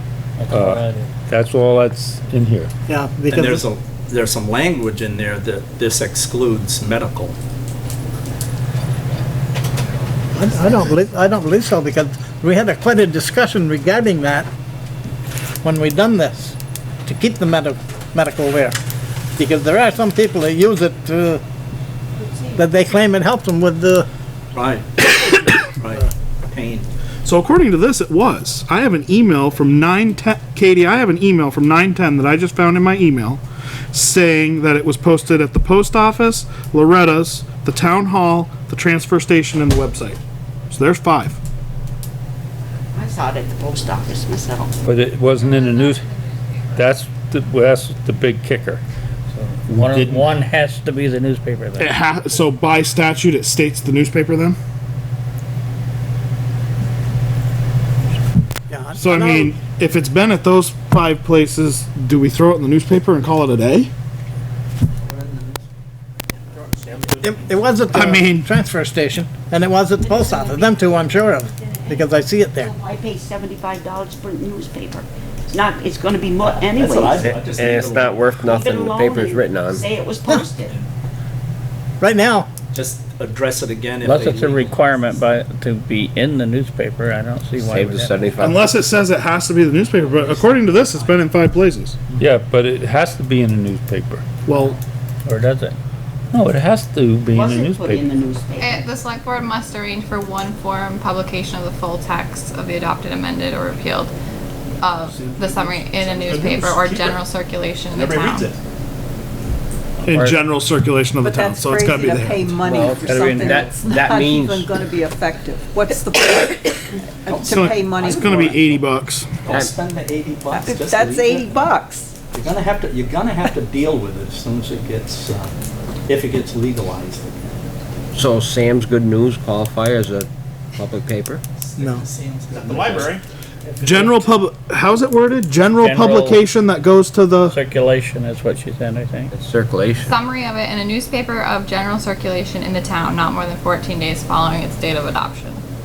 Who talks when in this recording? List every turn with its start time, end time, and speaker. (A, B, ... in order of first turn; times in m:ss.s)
0:00.4-0:01.1 A
0:00.5-0:02.7 B
0:02.9-0:03.6 C
0:03.3-0:07.4 D
0:10.3-0:14.5 C
0:15.6-0:18.8 C
0:19.4-0:21.4 C
0:22.5-0:24.1 C
0:24.5-0:26.9 D
0:27.2-0:33.4 E
0:33.9-0:40.2 E
0:40.7-0:41.4 E
0:42.9-0:44.8 F
0:44.8-0:46.0 B
0:45.4-0:46.9 G
0:46.8-0:48.8 B
0:49.3-0:51.9 A
0:49.7-0:50.3 B
0:51.8-0:54.6 E
0:58.7-0:59.5 C
0:59.0-1:03.9 E
1:05.2-1:05.4 D
1:06.8-1:07.2 D
1:07.2-1:12.7 C
1:07.9-1:08.4 E
1:12.6-1:17.3 F
1:16.4-1:18.2 D
1:17.2-1:19.9 H
1:18.4-1:20.7 F
1:22.0-1:22.5 C
1:22.7-1:25.0 D
1:24.0-1:28.2 A
1:27.6-1:28.6 H
1:28.4-1:32.0 E
1:29.9-1:31.2 D
1:32.2-1:34.4 B
1:34.5-1:34.8 E
1:35.2-1:35.8 A
1:36.3-1:38.1 B
1:37.3-1:38.8 F
1:38.6-1:44.1 G
1:44.8-1:48.5 G
1:45.1-1:47.2 D
1:48.0-1:48.6 D
1:50.0-1:52.6 E
1:50.1-1:50.4 H
1:51.2-1:58.3 I
1:52.6-1:54.8 H
1:53.0-1:53.7 A
1:57.3-1:58.8 D
1:57.5-1:59.4 E
1:59.5-2:01.5 D
2:00.5-2:02.2 I
2:02.3-2:05.5 D
2:06.1-2:07.6 D
2:08.1-2:11.4 H
2:11.6-2:13.2 D
2:11.8-2:12.0 C
2:12.6-2:13.2 E
2:13.7-2:14.2 D
2:13.8-2:14.1 A
2:13.8-2:17.6 E
2:15.8-2:16.4 A
2:17.5-2:19.3 A
2:19.3-2:20.2 H
2:20.0-2:25.6 G